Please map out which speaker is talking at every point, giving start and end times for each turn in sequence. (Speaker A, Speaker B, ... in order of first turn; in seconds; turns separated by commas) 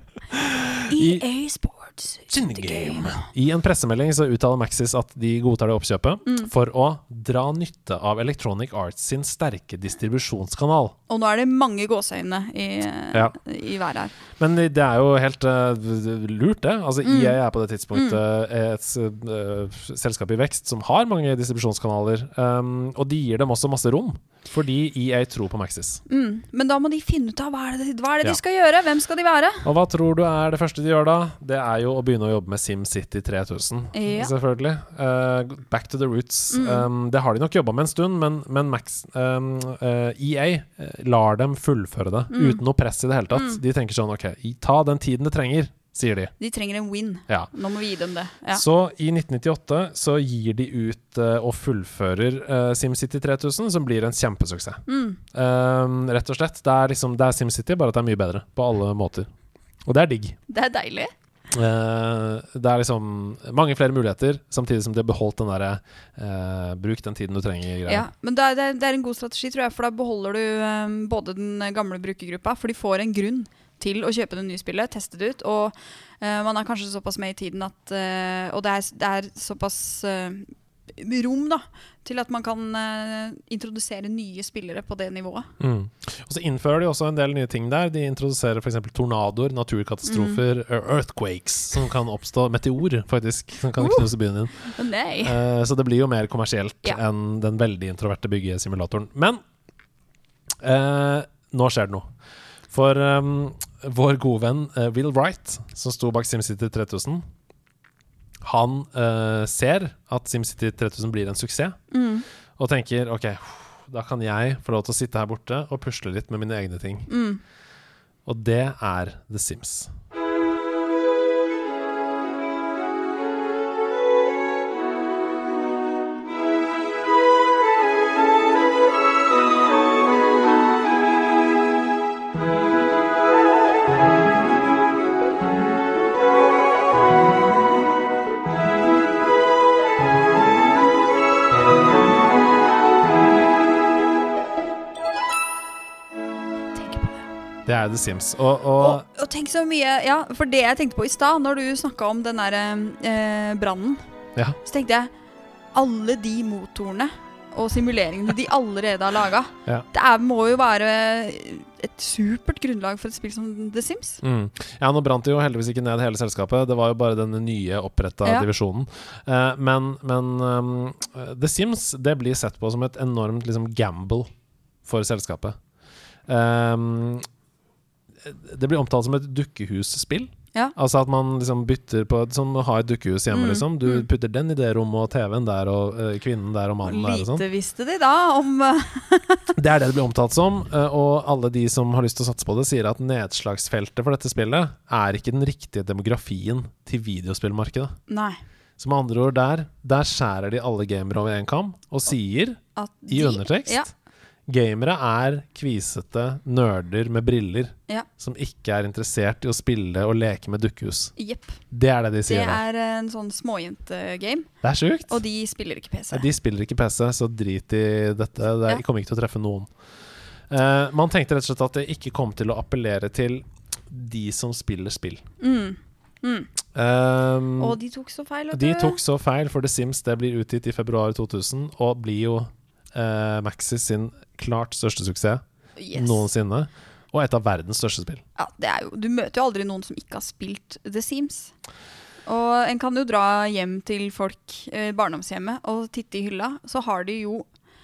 Speaker A: 0.3-1.2, Speaker B: 0.9-3.2, Speaker A: 2.3-10.9, Speaker B: 11.1-14.1, Speaker A: 14.4-26.0, Speaker B: 17.0-17.4, Speaker B: 17.9-18.2, Speaker B: 26.1-29.7, Speaker A: 29.6-46.3, Speaker B: 33.9-34.3, Speaker B: 36.5-36.9, Speaker B: 42.3-42.6, Speaker B: 43.3-43.6, Speaker B: 46.4-48.6, Speaker A: 48.5-54.8, Speaker B: 54.9-55.2, Speaker A: 55.3-59.3, Speaker A: 59.9-60.4, Speaker B: 60.5-61.1, Speaker A: 61.5-68.1, Speaker B: 67.9-85.5, Speaker A: 85.6-94.7, Speaker B: 90.1-90.4, Speaker B: 93.8-95.4, Speaker A: 95.2-99.4, Speaker A: 100.6-102.1, Speaker A: 102.7-107.2, Speaker A: 108.4-111.8, Speaker B: 111.9-112.2, Speaker A: 112.6-117.1, Speaker B: 117.1-117.4, Speaker A: 118.3-119.9, Speaker B: 146.8-147.3, Speaker A: 147.7-149.0, Speaker B: 148.8-154.0, Speaker B: 154.6-155.1, Speaker B: 155.7-164.2, Speaker A: 164.2-174.3, Speaker A: 174.8-175.6, Speaker A: 176.3-177.2, Speaker A: 178.2-187.4, Speaker B: 183.3-184.1, Speaker B: 186.8-189.5, Speaker A: 189.6-198.0, Speaker B: 198.1-198.4, Speaker A: 198.8-203.9, Speaker B: 202.8-203.9, Speaker A: 204.5-211.1, Speaker B: 211.2-211.6, Speaker A: 211.7-212.6, Speaker B: 212.3-214.5, Speaker A: 214.6-215.2, Speaker B: 215.1-216.3, Speaker A: 216.1-219.7, Speaker A: 220.5-225.2, Speaker B: 225.4-226.5, Speaker A: 226.7-227.8, Speaker B: 227.6-229.0, Speaker A: 228.5-235.4, Speaker B: 235.8-236.3, Speaker A: 235.9-238.2, Speaker B: 238.4-241.5, Speaker B: 242.3-247.5